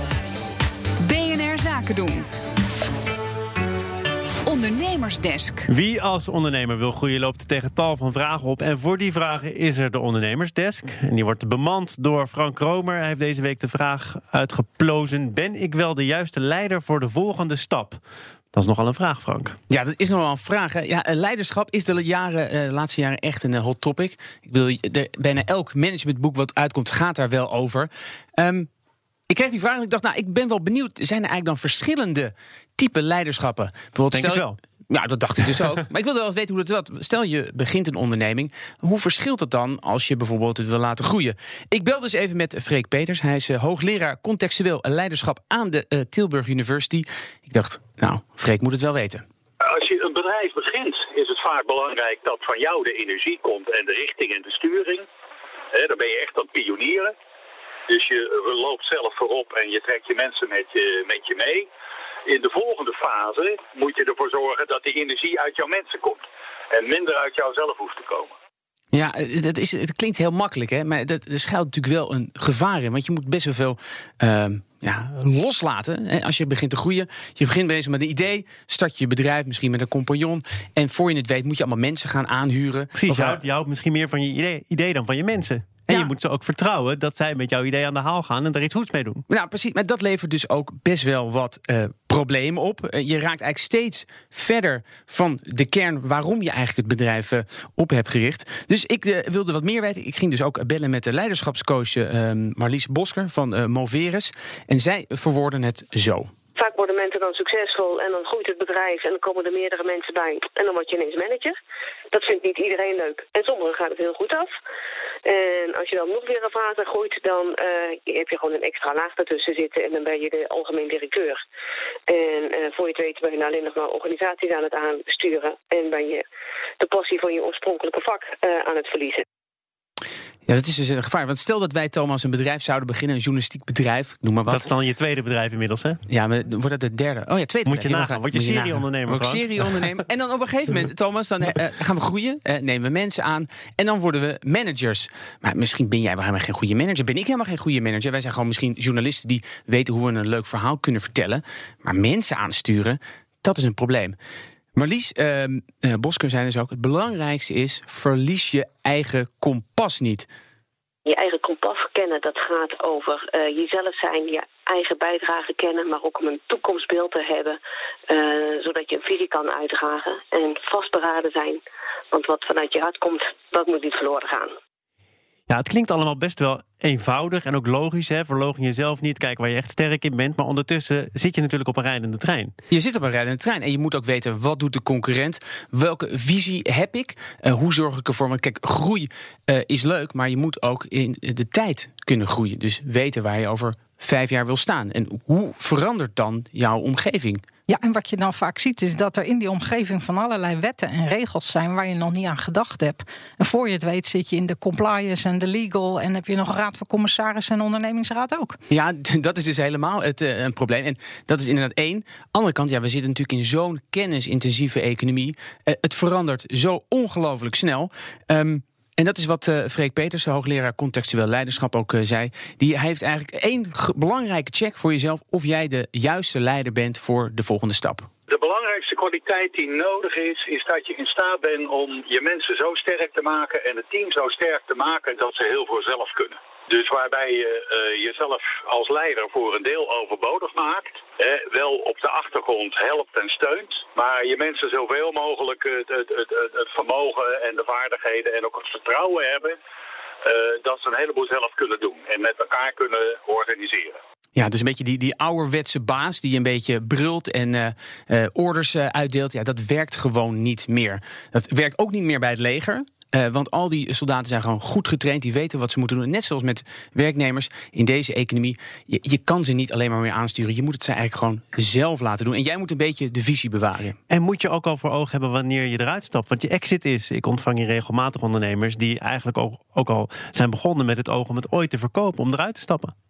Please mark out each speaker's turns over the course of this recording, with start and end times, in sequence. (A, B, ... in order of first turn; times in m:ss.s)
0:01.0-0:02.3 A
0:04.4-0:05.7 A
0:05.7-0:18.0 B
0:18.5-0:19.6 B
0:19.7-0:28.7 C
0:29.3-0:49.2 C
0:34.1-0:34.6 B
0:49.6-0:55.0 D
0:55.7-0:57.1 D
0:57.9-1:01.7 D
1:02.3-1:08.3 D
1:08.9-1:23.4 C
1:22.9-1:29.2 B
1:29.3-1:46.3 C
1:46.6-1:51.5 E
1:52.1-1:54.5 E
1:55.2-2:01.4 E
2:02.1-2:06.2 E
2:06.8-2:09.2 E
2:10.4-2:14.7 C
2:14.5-2:16.0 B
2:16.1-2:34.2 C
2:17.6-2:19.5 B
2:34.7-2:40.3 C
2:41.0-2:47.6 E
2:48.1-2:51.6 E
2:52.1-2:54.5 E
2:55.5-3:02.5 B
3:02.7-3:17.4 C
3:17.7-3:28.6 F
3:28.7-3:48.1 C
3:48.3-4:09.6 D
4:10.2-4:14.0 D
4:14.3-4:34.0 C
4:34.1-4:42.9 B